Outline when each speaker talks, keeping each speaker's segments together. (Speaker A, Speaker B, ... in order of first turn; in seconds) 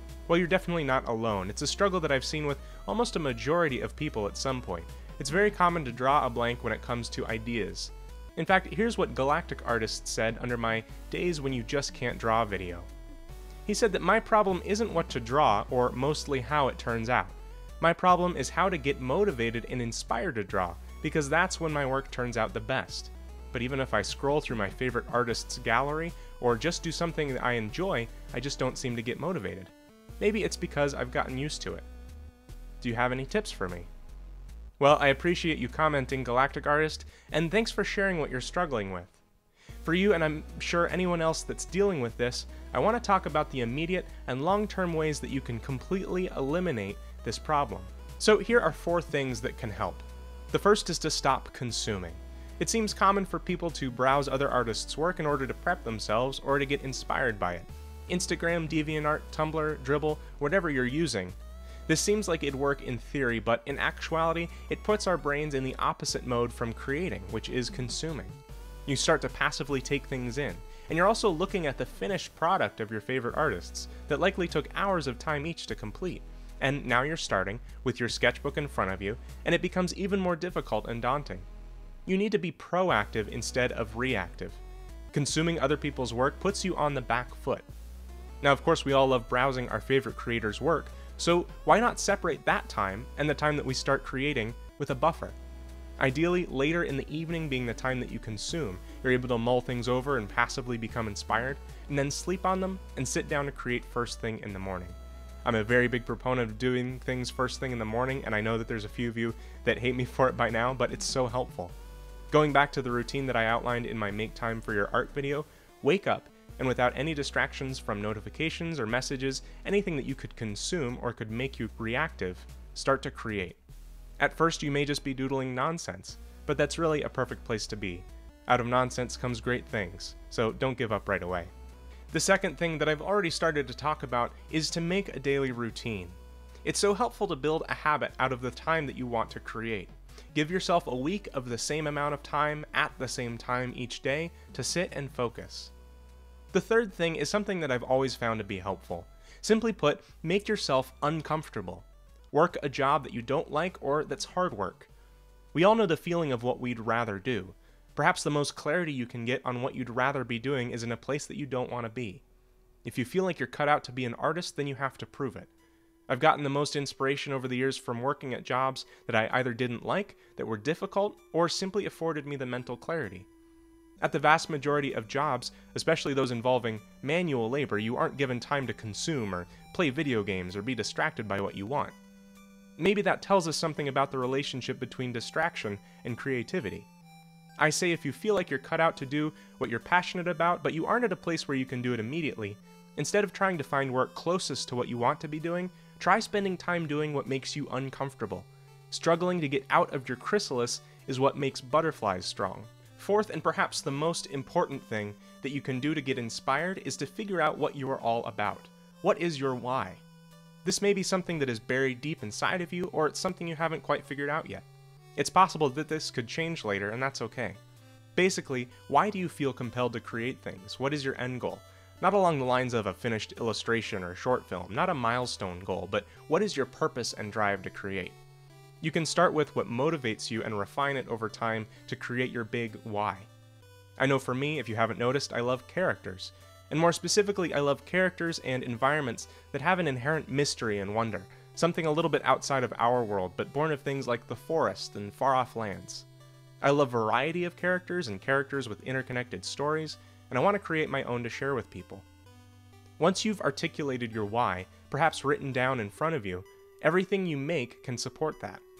Speaker A: 0.3-12.9, 13.7-31.9, 32.8-33.9, 34.8-39.2, 39.8-81.5, 82.0-84.6, 85.1-87.7, 88.4-95.4, 96.0-111.7, 112.3-123.6, 124.2-131.5, 132.1-145.7, 146.5-154.9, 155.5-162.2, 162.8-165.5, 166.1-173.3, 174.0-181.9, 182.8-186.9, 187.6-210.0, 210.6-217.6, 218.1-228.2, 228.8-233.3, 234.0-246.1, 246.6-252.1, 253.0-258.6